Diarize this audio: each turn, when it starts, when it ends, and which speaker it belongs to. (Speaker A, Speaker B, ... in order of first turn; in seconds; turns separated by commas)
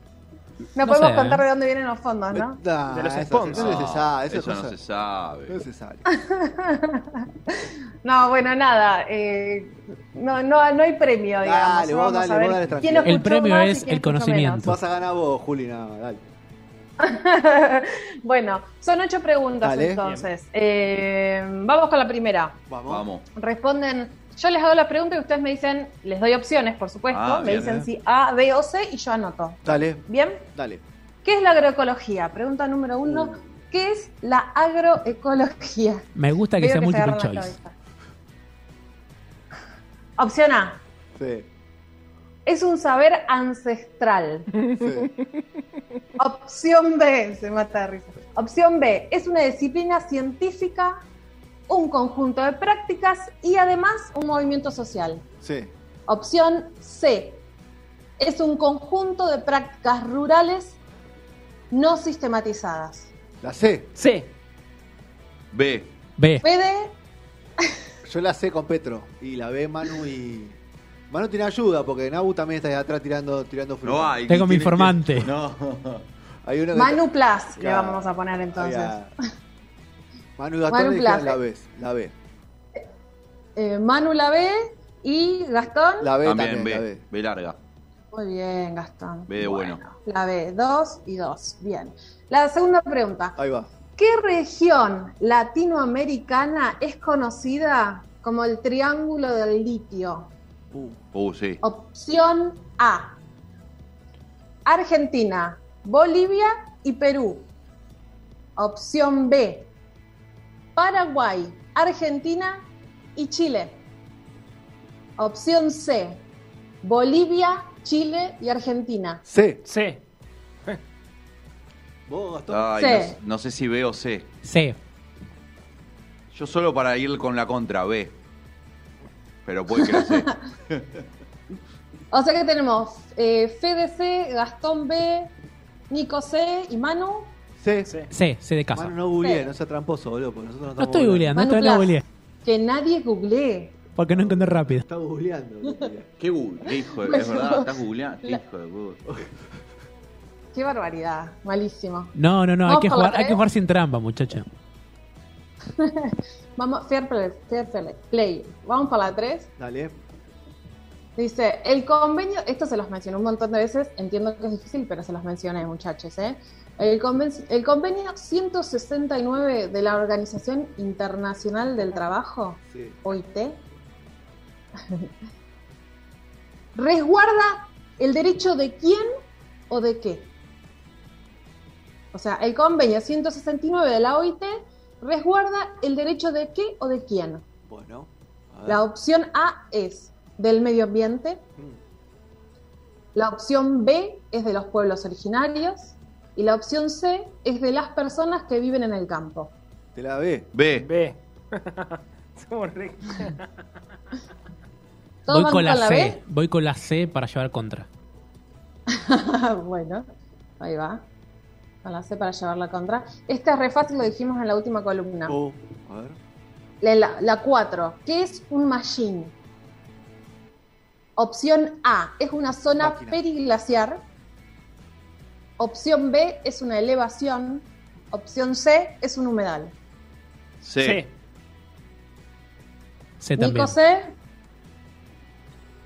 Speaker A: 0.8-2.6, Speaker B: 0.8-1.4, Speaker C: 2.3-4.8, Speaker D: 2.9-3.8, Speaker E: 3.5-5.6, Speaker C: 5.5-6.0, Speaker A: 6.1-14.7, Speaker C: 11.4-13.2, Speaker B: 13.1-14.8, Speaker C: 14.6-16.2, Speaker A: 17.0-22.6, Speaker C: 19.6-20.0, Speaker C: 22.7-23.1, Speaker E: 22.9-23.2, Speaker A: 23.3-30.5, Speaker E: 27.1-27.8, Speaker C: 27.4-27.9, Speaker C: 29.6-30.8, Speaker A: 31.2-37.7, Speaker C: 33.0-33.4, Speaker B: 36.2-37.6, Speaker A: 40.2-40.8, Speaker C: 41.1-41.5, Speaker A: 42.5-44.5, Speaker D: 44.5-45.4, Speaker C: 44.8-45.1, Speaker A: 46.2-51.0, Speaker A: 51.7-55.2, Speaker C: 55.4-55.7, Speaker A: 56.1-57.4, Speaker A: 58.2-60.8, Speaker A: 61.7-63.1, Speaker C: 63.4-63.9, Speaker D: 64.0-64.3, Speaker E: 65.5-65.9, Speaker B: 66.2-66.5, Speaker A: 66.4-66.9, Speaker C: 68.0-70.6, Speaker C: 71.1-74.2, Speaker E: 73.8-76.1, Speaker B: 74.3-75.3, Speaker C: 76.4-77.0, Speaker A: 76.7-79.0, Speaker C: 77.6-79.1, Speaker C: 80.4-82.1, Speaker A: 80.7-81.4, Speaker A: 83.6-86.1, Speaker C: 86.0-87.0, Speaker E: 86.2-87.6, Speaker A: 88.1-93.4, Speaker E: 89.3-89.8, Speaker C: 93.4-93.7, Speaker A: 94.0-100.3, Speaker C: 100.7-101.0, Speaker E: 101.1-101.6, Speaker A: 101.6-103.2, Speaker A: 104.7-107.5, Speaker A: 108.6-109.7, Speaker A: 110.8-112.7, Speaker A: 113.2-113.8, Speaker A: 115.2-116.2, Speaker A: 116.8-119.2, Speaker C: 119.3-119.6, Speaker D: 119.7-120.0, Speaker C: 122.1-122.8, Speaker E: 122.5-124.3, Speaker A: 122.8-123.2, Speaker B: 124.4-124.8, Speaker E: 126.3-128.1, Speaker E: 129.4-130.9, Speaker A: 129.8-130.3, Speaker A: 132.1-135.3, Speaker A: 135.9-137.3, Speaker C: 137.6-137.9, Speaker B: 138.1-138.9, Speaker C: 138.7-141.3, Speaker A: 139.2-139.5, Speaker B: 140.8-142.0, Speaker A: 141.3-143.8, Speaker B: 144.0-144.8, Speaker C: 144.1-146.1, Speaker E: 146.2-149.0, Speaker A: 146.9-148.4, Speaker A: 150.5-153.4, Speaker B: 152.2-154.5, Speaker A: 155.8-159.5, Speaker C: 159.6-159.9, Speaker A: 161.2-173.6, Speaker C: 172.7-173.0, Speaker A: 176.8-179.1, Speaker A: 179.7-180.3, Speaker A: 182.1-187.4, Speaker C: 187.7-188.8, Speaker A: 188.7-191.4, Speaker A: 193.2-199.5, Speaker C: 199.9-200.5, Speaker E: 200.5-200.9, Speaker D: 200.8-203.5, Speaker A: 205.3-206.2, Speaker B: 205.3-207.9, Speaker A: 208.9-210.1, Speaker A: 210.6-211.0, Speaker A: 211.8-215.3, Speaker C: 215.3-216.2, Speaker A: 216.8-219.3, Speaker A: 221.2-224.0, Speaker C: 222.8-223.2, Speaker A: 225.6-229.7, Speaker E: 230.6-231.0, Speaker D: 230.8-231.1, Speaker B: 233.2-233.7, Speaker A: 233.4-234.1